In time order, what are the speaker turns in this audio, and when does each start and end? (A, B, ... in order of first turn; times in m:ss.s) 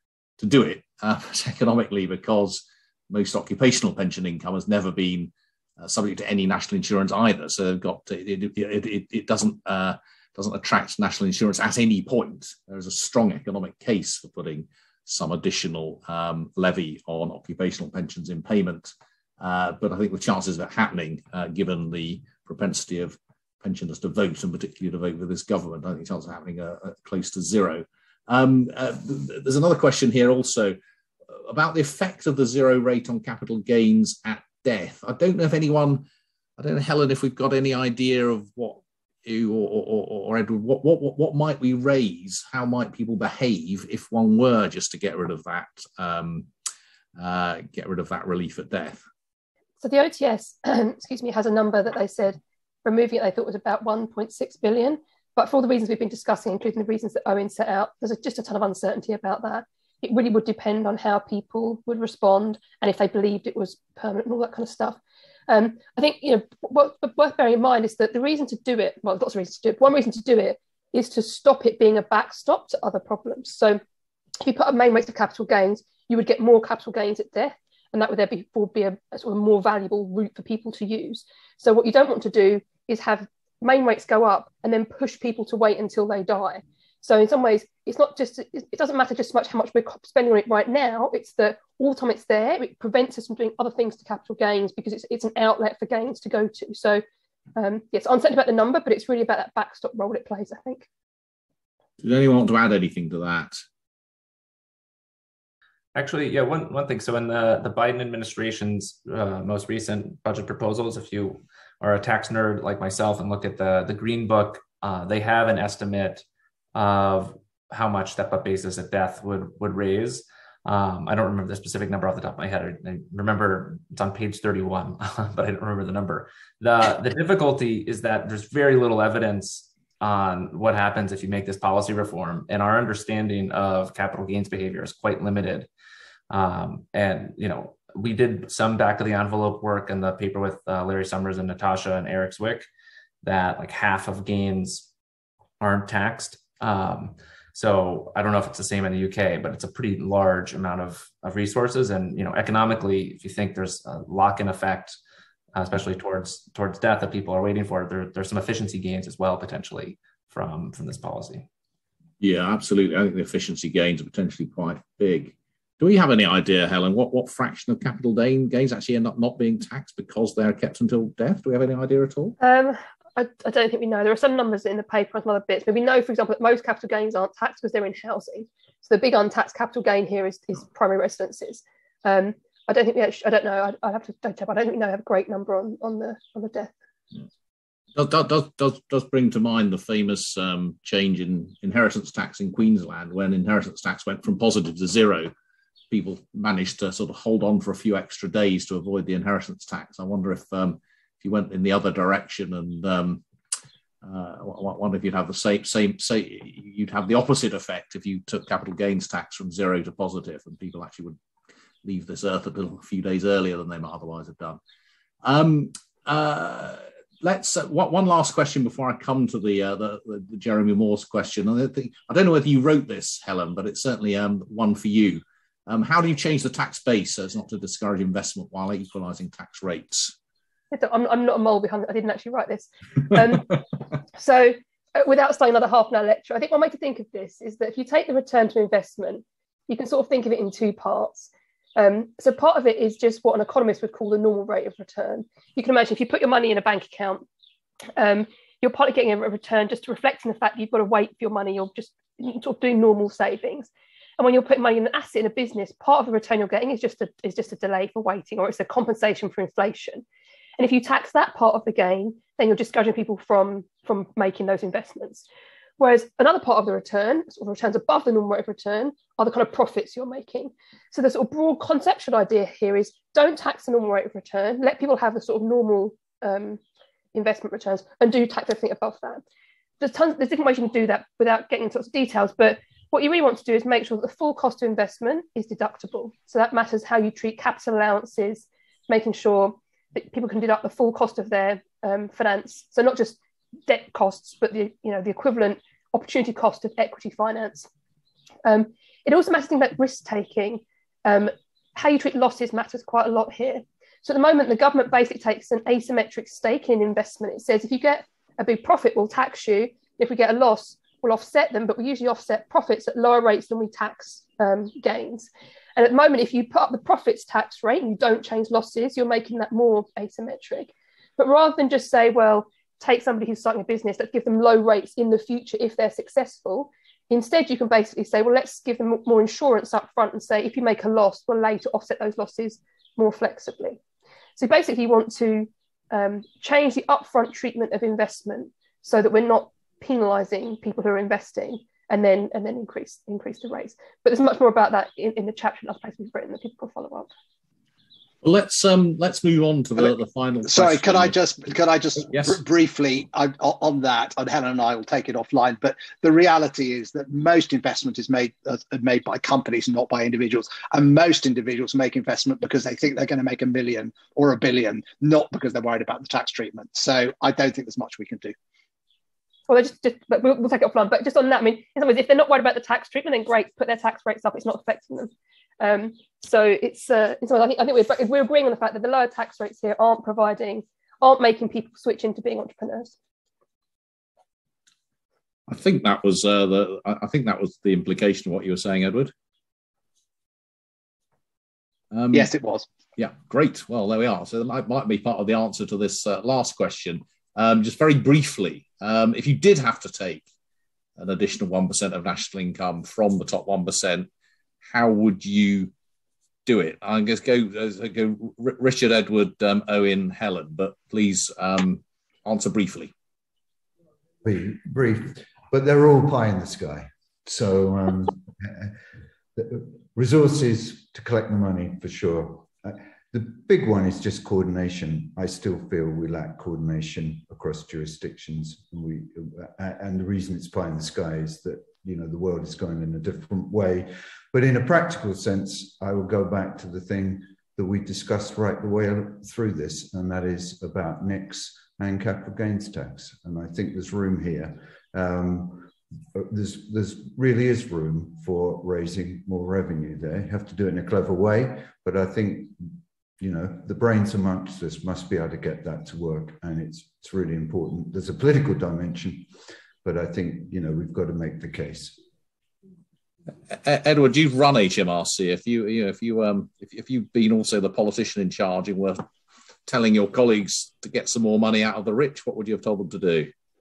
0:00.4-0:30.8 A
0:31.3-0:36.0 A
0:36.6-0:46.5 A
0:47.2-0:49.0 A
0:49.8-1:13.8 B
1:14.4-1:37.0 B
1:37.6-1:40.9 B
1:42.0-1:43.6 A
1:45.9-1:56.2 C
1:56.7-2:15.7 C
2:16.3-2:22.7 C
2:23.2-2:24.9 C
2:25.6-2:35.0 C
2:35.5-2:41.5 C
2:42.2-2:52.4 A
2:52.4-3:06.7 B
3:07.9-3:15.3 A
3:15.9-3:23.2 A
3:24.0-3:31.2 A
3:31.8-3:34.6 A
3:35.2-3:50.1 A
3:50.7-3:53.6 B
3:54.1-4:07.2 B
4:08.0-4:20.0 B
4:20.6-4:25.2 B
4:25.8-4:36.6 B
4:37.1-4:39.2 B
4:39.8-4:57.7 B
4:58.4-5:33.8 B
5:34.4-5:47.1 B
5:48.2-5:51.2 A
5:50.4-6:08.3 D
5:52.1-5:52.4 A
6:09.5-6:23.0 B
6:25.5-6:29.1 A
6:31.9-6:32.3 A
6:32.1-6:32.7 D
6:33.0-6:40.2 A
6:41.0-6:44.1 A
6:44.7-6:45.7 A
6:46.4-6:52.9 A
6:54.2-6:58.7 E
6:59.4-7:39.3 E
7:39.8-7:42.0 E
7:43.5-7:49.0 A
7:49.6-7:53.3 A